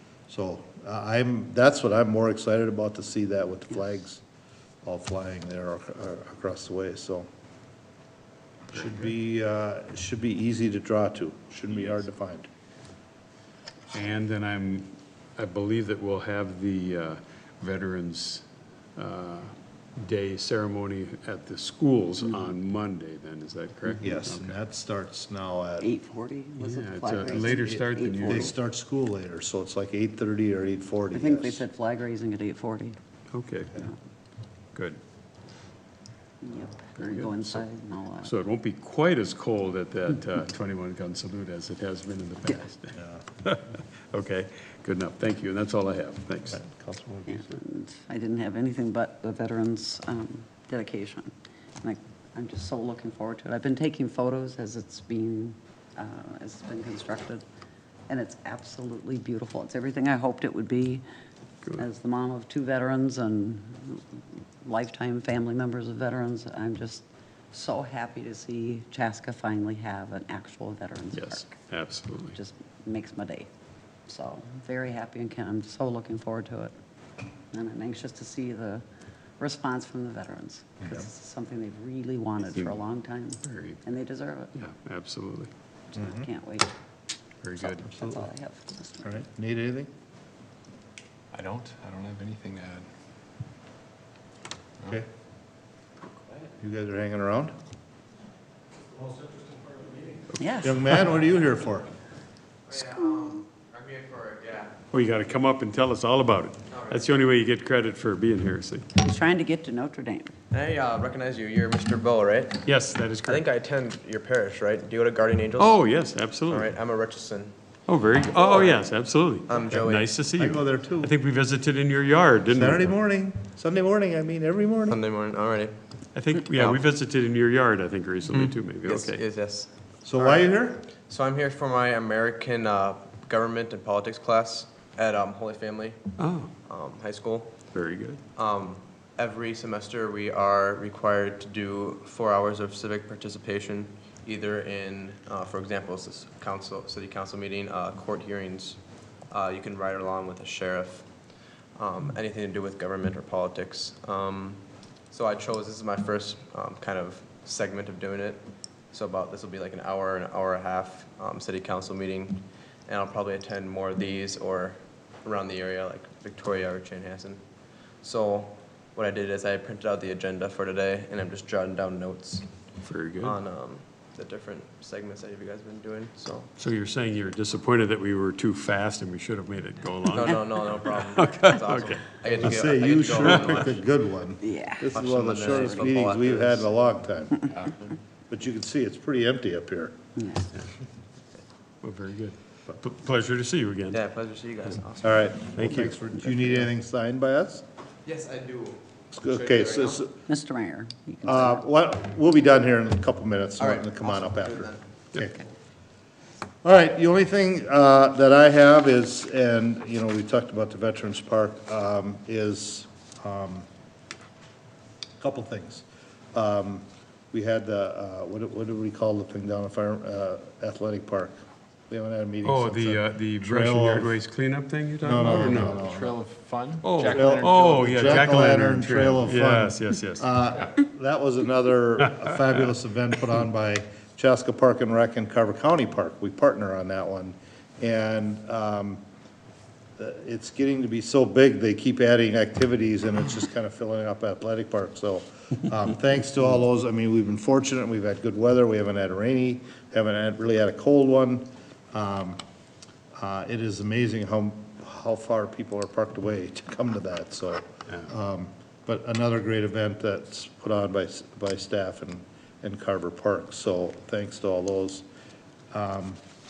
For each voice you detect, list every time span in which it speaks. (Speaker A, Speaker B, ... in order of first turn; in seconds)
Speaker A: 0.3-4.2, 4.8-7.3, 8.7-12.5, 24.0-25.9, 27.2-31.7, 46.5-47.6, 86.0-86.3, 87.9-88.3, 89.0-89.9, 96.6-97.5, 100.6-101.9, 120.3-121.1, 122.5-125.0, 130.0-130.8, 182.3-187.5, 188.3-189.9, 195.0-197.6, 199.1-200.1, 201.2-205.4, 206.6-213.7, 215.2-221.3, 221.9-224.2, 225.0-226.2, 227.1-239.0, 240.0-252.4, 253.2-265.1, 265.7-266.2
Speaker B: 13.9-24.5, 26.6-28.5, 33.3-33.9, 34.7-35.0, 37.0-37.6, 38.2-46.6, 71.2-72.4, 83.4-83.8, 84.6-85.5, 87.4-87.8, 104.9-108.8, 112.6-113.4, 115.6-116.7, 117.9-122.9, 126.1-129.2, 136.2-136.5, 137.7-138.2, 172.8-173.4, 176.6-182.1, 191.8-194.0, 195.6-195.9, 222.4-225.8, 226.8-230.3
Speaker C: 22.3-22.5, 25.8-28.5, 31.1-33.0, 36.4-38.3, 47.3-57.4, 58.1-61.0, 61.8-71.5, 72.3-73.5, 74.1-76.7, 77.5-78.8, 79.4-84.6, 85.9-86.7, 87.6-89.2, 100.4-100.8, 109.0-110.3, 184.4-185.0, 185.5-185.9, 190.2-190.5, 200.3-201.6
Speaker D: 91.3-92.9, 225.4-228.3
Speaker E: 102.7-104.8, 106.7-107.1, 110.5-112.6, 113.2-115.8, 116.5-117.6, 118.3-120.2, 124.9-125.8, 126.3-126.8, 128.3-136.1, 136.7-137.7, 138.3-167.4, 168.0-172.7, 173.2-176.5, 180.0-183.8, 184.9-186.7, 193.9-195.5, 198.0-200.0, 203.6-204.8